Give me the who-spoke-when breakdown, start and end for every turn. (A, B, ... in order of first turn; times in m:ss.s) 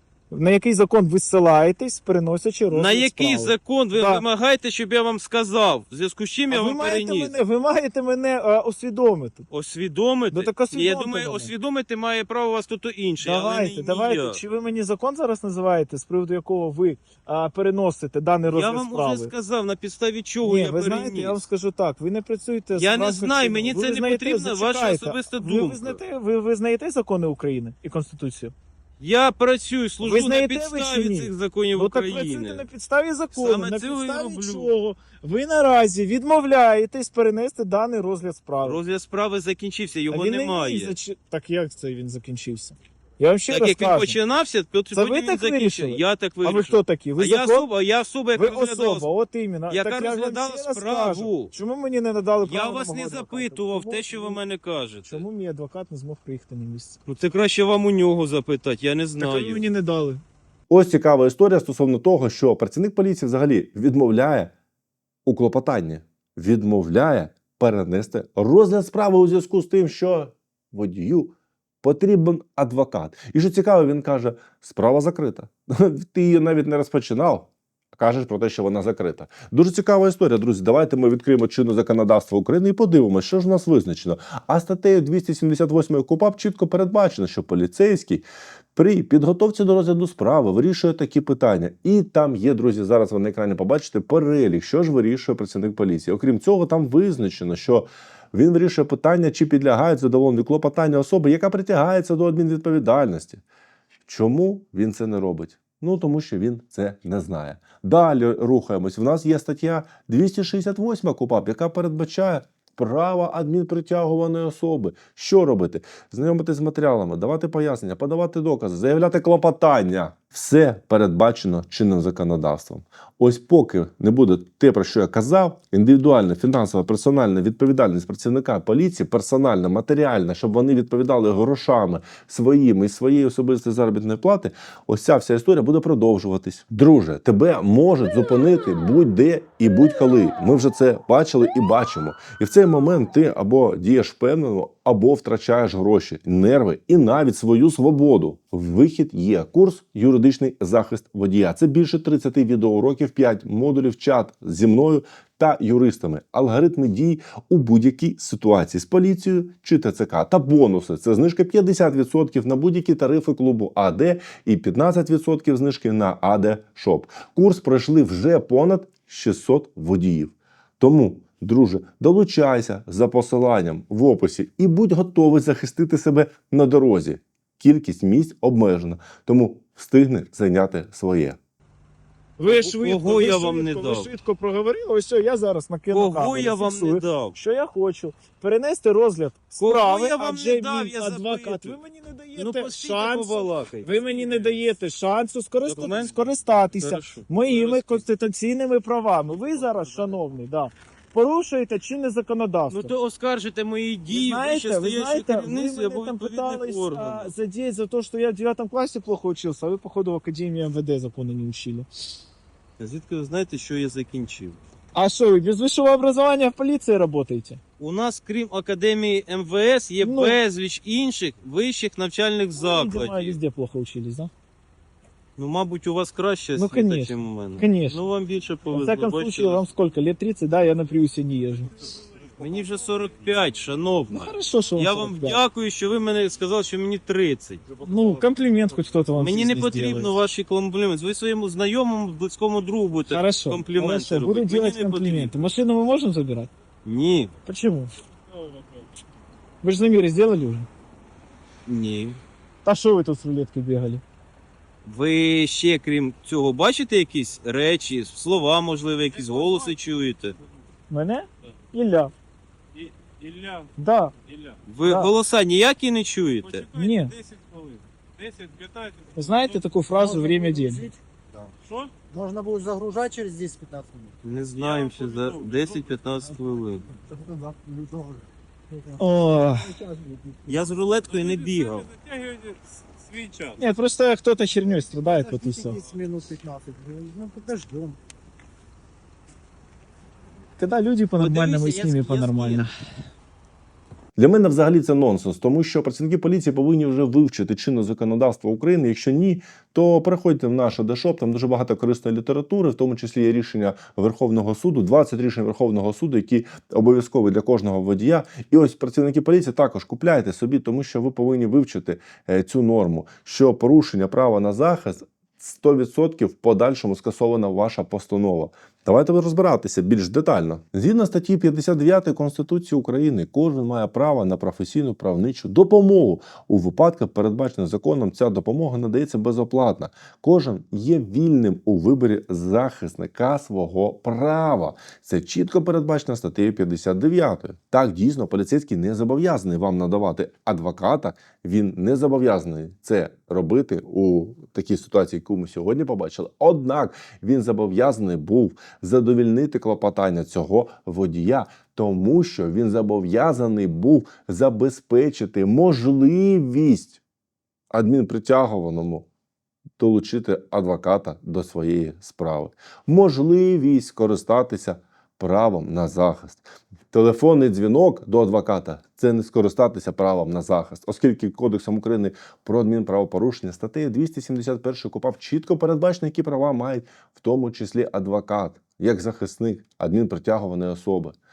0:00.3-0:04.2 A
0:02.7-0:07.3 B
0:06.5-0:09.5 A
0:09.5-0:14.4 B
0:10.3-0:11.5 A
0:13.2-0:19.3 A
0:18.5-0:21.4 B
0:20.4-0:28.5 A
0:22.8-0:26.0 B
0:29.0-0:32.6 B
0:30.0-0:38.8 A
0:33.3-0:34.7 B
0:38.6-0:41.0 B
0:40.1-0:44.2 A
0:43.5-0:49.1 B
0:44.9-0:47.7 A
0:48.4-0:54.4 A
0:49.7-0:51.5 B
0:52.4-0:55.2 B
0:55.1-0:57.0 A
0:57.1-0:59.6 B
0:59.2-1:00.2 A
1:00.7-1:04.5 C
1:05.2-1:43.4 C
1:44.1-3:01.4 C
3:02.4-3:22.9 A
3:02.4-3:04.1 B
3:05.9-3:07.4 B
3:09.6-3:11.8 B
3:12.4-3:14.3 B
3:15.6-3:18.0 B
3:22.7-3:27.3 B
3:24.1-3:31.9 A
3:32.8-3:34.6 B
3:34.9-3:37.6 A
3:37.8-3:43.4 B
3:40.0-3:40.4 A
3:42.6-3:44.3 A
3:45.4-3:49.6 B
3:46.6-3:48.0 A
3:48.7-3:51.8 A
3:52.4-3:57.6 B
3:54.1-3:55.4 A
3:57.8-4:00.2 A
3:59.2-4:05.3 B
4:03.1-4:06.5 A
4:06.8-4:07.3 B
4:07.4-4:07.9 A
4:09.6-4:10.7 A
4:11.7-4:12.2 B
4:12.6-4:14.0 A
4:14.8-4:20.4 B
4:20.9-4:22.1 A
4:23.0-4:23.7 D
4:23.8-4:24.1 A
4:24.7-4:26.7 B
4:24.8-4:25.1 A
4:26.7-4:27.2 A
4:26.8-4:29.1 D
4:29.2-4:30.9 A
4:30.0-4:31.0 E
4:32.1-4:34.1 E
4:34.2-4:36.9 B
4:37.1-4:39.0 E
4:39.0-4:39.8 A
4:39.6-4:40.4 E
4:40.5-4:41.9 B
4:41.9-4:43.6 D
4:43.6-4:45.8 A
4:45.2-4:48.0 E
4:50.6-4:52.7 A
4:51.2-4:52.7 B
4:54.2-5:57.0 C
5:57.7-5:59.1 C
5:59.8-6:21.2 C